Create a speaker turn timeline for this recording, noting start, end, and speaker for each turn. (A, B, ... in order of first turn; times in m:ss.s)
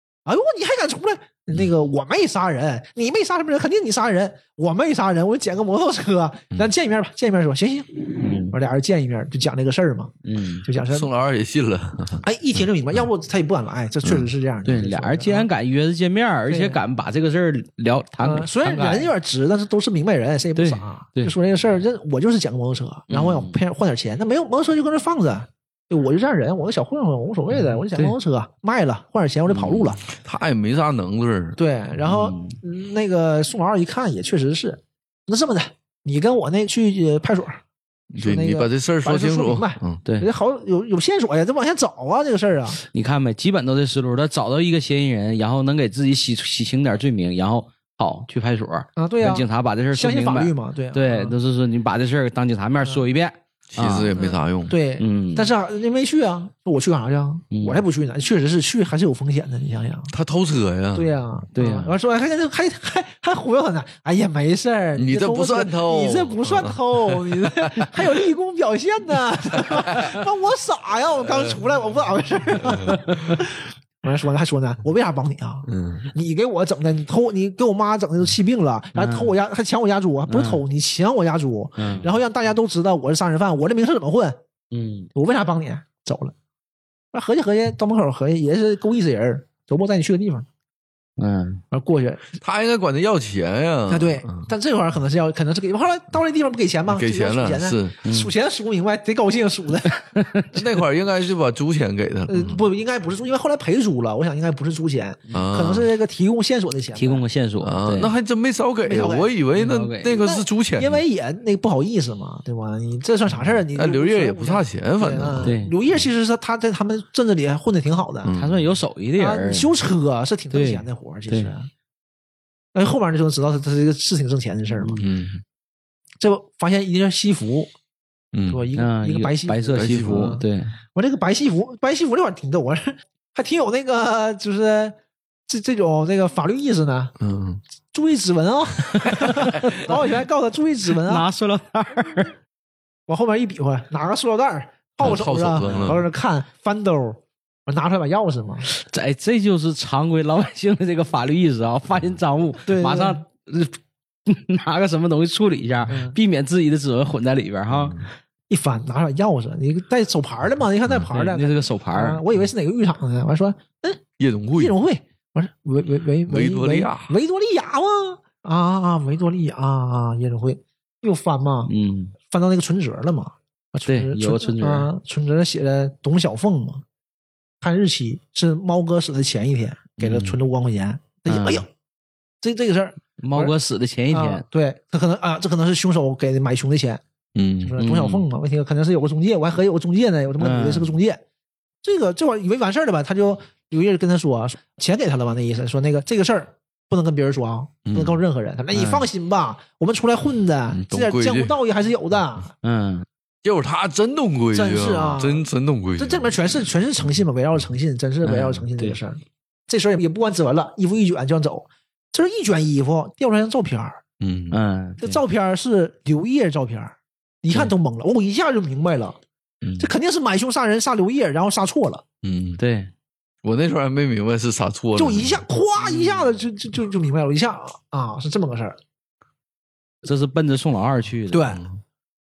0:00.2-0:10.1 A
0:08.2-0:08.5 B
0:10.2-0:10.6 B
0:10.6-0:11.1 A
0:10.9-0:12.2 C
0:12.2-0:15.5 A
0:14.6-0:19.1 B
0:16.5-0:16.8 A
0:18.2-0:30.0 A
0:20.6-0:21.3 B
0:23.1-0:23.6 B
0:27.6-0:28.1 B
0:29.5-0:31.6 C
0:31.6-0:37.6 A
0:32.0-0:32.6 B
0:38.1-0:40.0 C
0:38.2-0:42.8 A
0:42.9-0:54.2 B
0:49.0-0:51.4 A
0:53.7-0:54.8 C
0:54.2-1:00.1 A
0:55.0-0:55.5 B
0:57.5-0:57.8 B
1:00.1-1:01.1 C
1:00.9-1:24.4 A
1:01.5-1:01.9 B
1:05.0-1:08.1 C
1:09.6-1:10.0 C
1:12.6-1:13.0 C
1:15.7-1:16.1 C
1:18.9-1:19.3 B
1:20.3-1:20.6 B
1:21.8-1:22.1 B
1:24.7-1:25.1 B
1:25.1-1:26.3 A
1:27.1-1:30.4 A
1:31.2-1:31.6 B
1:31.7-1:32.3 A
1:32.4-1:34.5 C
1:33.9-1:40.4 A
1:36.9-1:38.0 C
1:38.0-1:38.3 B
1:40.2-1:40.4 B
1:40.5-1:42.6 C
1:42.3-1:47.2 A
1:45.3-1:45.9 C
1:46.9-1:48.1 B
1:47.6-1:51.0 C
1:48.8-1:49.3 A
1:49.6-1:50.1 B
1:50.2-1:58.3 A
1:53.7-1:55.5 C
1:55.4-1:55.7 B
1:58.2-1:58.7 C
1:58.3-1:59.7 B
1:59.2-2:01.7 A
2:00.5-2:01.5 B
2:02.7-2:05.0 A
2:04.8-2:05.0 B
2:05.0-2:05.4 C
2:06.2-2:07.7 A
2:08.3-2:08.6 C
2:08.5-2:15.0 A
2:08.7-2:10.7 B
2:09.7-2:10.4 C
2:15.5-2:17.1 A
2:17.2-2:17.6 C
2:17.9-2:21.3 A
2:19.0-2:20.0 B
2:20.9-2:22.3 B
2:23.1-2:28.7 A
2:25.0-2:26.1 C
2:28.7-2:38.1 B
2:32.7-2:33.2 A
2:35.9-2:36.2 A
2:37.7-2:38.0 C
2:38.5-2:44.0 A
2:41.1-2:42.2 B
2:44.2-2:44.8 C
2:44.6-2:51.7 A
2:46.2-2:47.1 C
2:51.7-2:52.1 B
2:52.2-2:56.8 A
2:53.9-2:54.9 B
2:57.6-3:01.7 A
3:00.0-3:00.3 C
3:01.3-3:01.6 B
3:02.4-3:03.5 A
3:03.2-3:04.4 B
3:04.1-3:07.0 A
3:07.3-3:07.8 C
3:07.6-3:11.2 A
3:07.8-3:08.2 B
3:10.4-3:10.9 B
3:11.8-3:22.5 A
3:17.8-3:18.2 C
3:18.7-3:19.1 B
3:20.7-3:21.6 C
3:22.6-3:23.0 B
3:23.4-3:26.4 C
3:24.5-3:25.4 A
3:26.0-3:34.0 A
3:28.2-3:29.0 B
3:34.2-3:34.6 C
3:34.5-3:35.2 B
3:35.0-3:39.2 A
3:39.6-3:39.9 C
3:39.8-3:42.0 A
3:42.2-3:42.6 C
3:42.6-3:42.9 B
3:43.4-3:45.4 C
3:45.0-3:48.8 A
3:50.0-3:51.5 B
3:51.3-3:51.6 A